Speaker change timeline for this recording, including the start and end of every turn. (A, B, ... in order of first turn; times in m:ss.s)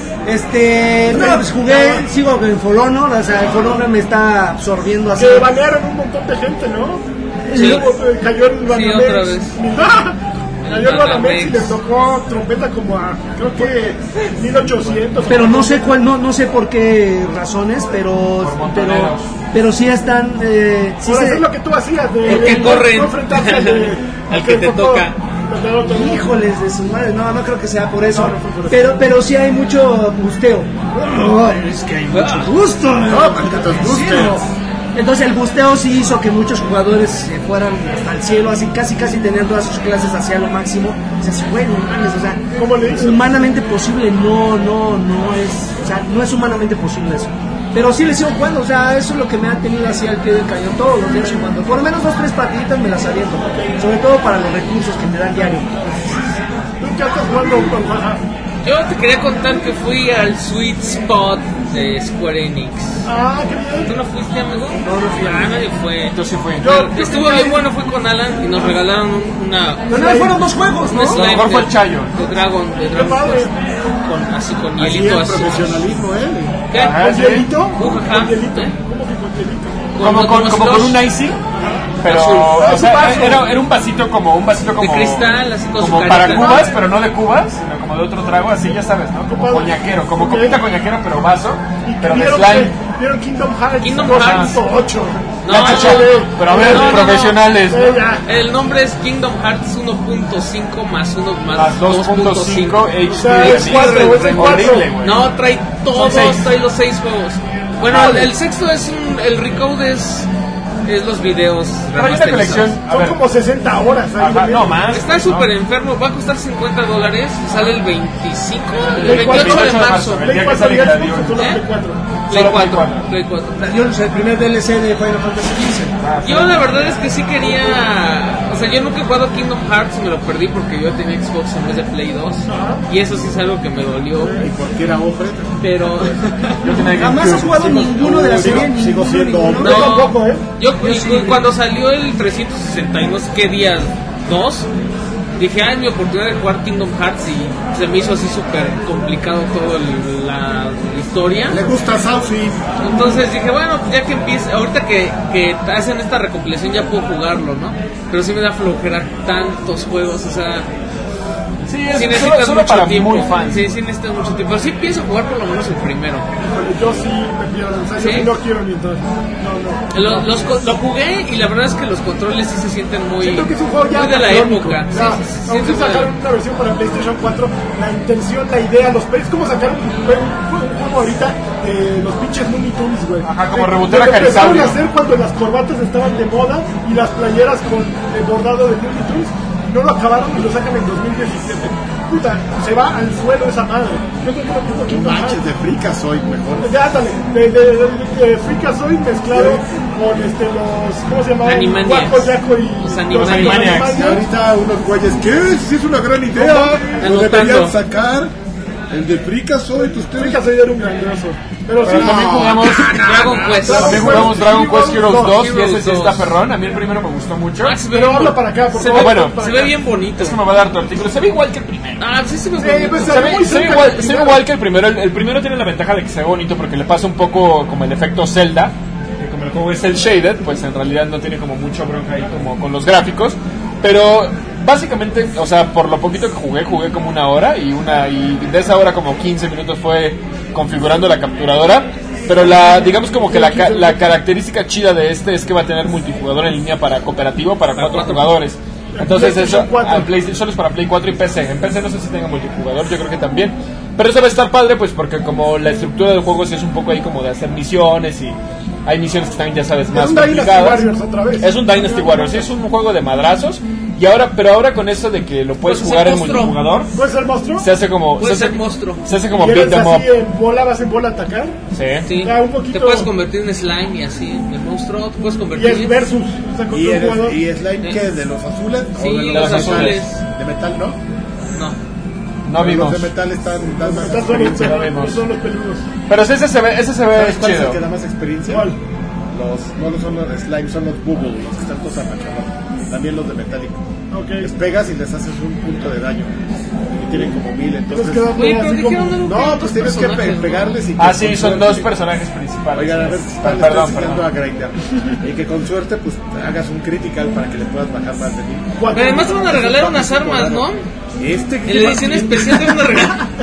0:00.2-0:05.5 A
0:01.0-0:02.1 B
0:05.2-0:15.9 B
0:07.5-0:07.8 A
0:07.5-0:07.9 C
0:08.6-0:09.6 C
0:10.6-0:11.8 C
0:15.3-0:21.5 A
0:18.4-0:19.3 D
0:21.0-0:26.3 B
0:22.2-0:22.8 A
0:22.2-0:25.2 C
0:25.8-0:55.8 A
0:28.1-0:28.8 B
0:32.1-0:32.5 C
0:33.1-0:34.5 E
0:42.5-0:43.2 B
0:51.1-0:51.5 B
0:53.4-0:53.8 B
0:55.7-0:56.0 B
0:56.8-0:58.2 B
0:58.6-1:03.0 C
1:03.0-1:03.9 B
1:03.8-1:10.1 C
1:04.9-1:05.4 B
1:06.1-1:06.7 D
1:06.6-1:07.6 B
1:09.9-1:11.2 A
1:09.9-1:10.4 B
1:10.9-1:15.8 C
1:11.1-1:12.2 D
1:12.9-1:13.5 B
1:14.8-1:16.6 E
1:16.7-1:18.7 C
1:16.7-1:17.5 D
1:16.9-1:20.0 B
1:20.0-1:21.0 C
1:20.0-1:21.4 D
1:21.5-1:23.5 B
1:22.0-1:32.8 D
1:22.0-1:22.5 C
1:24.8-1:26.7 C
1:26.1-1:26.9 B
1:29.3-1:30.6 B
1:31.8-1:38.2 B
1:33.8-1:34.6 C
1:34.0-1:34.6 D
1:35.4-1:37.4 C
1:35.5-1:38.0 D
1:38.2-1:50.3 C
1:41.5-1:45.3 D
1:43.1-1:44.9 B
1:45.9-1:46.5 D
1:47.9-1:48.3 D
1:50.8-1:52.7 C
1:51.9-1:53.2 D
1:52.7-1:54.9 B
1:54.2-1:55.5 D
1:54.9-2:00.4 C
1:59.0-2:02.2 B
1:59.0-2:01.5 D
2:01.3-2:01.6 C
2:02.3-2:03.1 D
2:02.3-2:03.7 C
2:03.6-2:05.9 A
2:06.0-2:06.9 D
2:06.2-2:14.4 C
2:12.5-2:12.8 B
2:14.2-2:14.5 B
2:14.4-2:15.6 E
2:15.6-2:16.9 C
2:16.6-2:18.7 D
2:16.9-2:19.8 A
2:17.5-2:20.0 E
2:19.6-2:20.4 B
2:19.6-2:24.7 C
2:20.8-2:21.4 A
2:25.4-2:31.6 C
2:31.5-2:32.7 E
2:32.8-2:40.7 C
2:41.6-2:43.7 D
2:41.9-2:46.3 C
2:46.4-2:50.3 B
2:47.9-2:48.3 C
2:49.9-2:56.1 C
2:53.2-3:15.4 B
3:03.2-3:04.8 D
3:14.8-3:16.8 E
3:16.6-3:24.2 B
3:19.3-3:19.6 E
3:21.4-3:24.0 C
3:23.2-3:24.2 D
3:23.9-3:28.3 E
3:26.3-3:27.1 B
3:27.0-3:27.8 C
3:28.9-3:30.4 E
3:30.1-3:32.6 B
3:31.8-3:34.2 E
3:31.8-3:37.8 D
3:32.9-3:34.4 C
3:33.5-3:35.4 B
3:35.1-3:36.3 C
3:37.6-3:40.4 C
3:37.8-3:39.8 B
3:38.8-3:39.4 D
3:40.2-3:42.0 D
3:42.0-3:43.6 C
3:42.6-3:44.4 B
3:43.0-4:26.9 D
4:02.3-4:04.2 B
4:07.7-4:08.3 C
4:08.9-4:10.1 B
4:19.9-4:22.5 B
4:25.6-4:26.6 C
4:26.9-4:27.7 B
4:27.6-4:30.1 D
4:28.2-4:29.0 C
4:29.3-4:31.6 B
4:31.7-4:32.1 D
4:32.0-4:36.0 C
4:32.2-4:33.1 B
4:35.5-4:37.4 B
4:36.7-4:41.0 E
4:39.0-4:40.2 C
4:39.3-4:40.1 D
4:42.4-4:43.1 D
4:42.5-4:44.9 E
4:43.8-4:45.8 B
4:44.3-4:45.2 D
4:46.1-4:47.8 D
4:47.1-4:48.7 E
4:48.4-4:48.8 B
4:49.3-4:53.8 E
4:54.1-4:54.5 B
4:54.4-4:56.3 E
4:56.9-4:58.3 E
4:57.9-4:59.2 B
4:58.3-5:00.8 C
4:59.2-5:01.9 E
5:01.0-5:04.3 D
5:02.7-5:08.8 E
5:08.8-5:09.8 B
5:08.9-5:10.8 C
5:09.5-5:10.7 E
5:11.2-5:12.8 E
5:11.6-5:13.3 C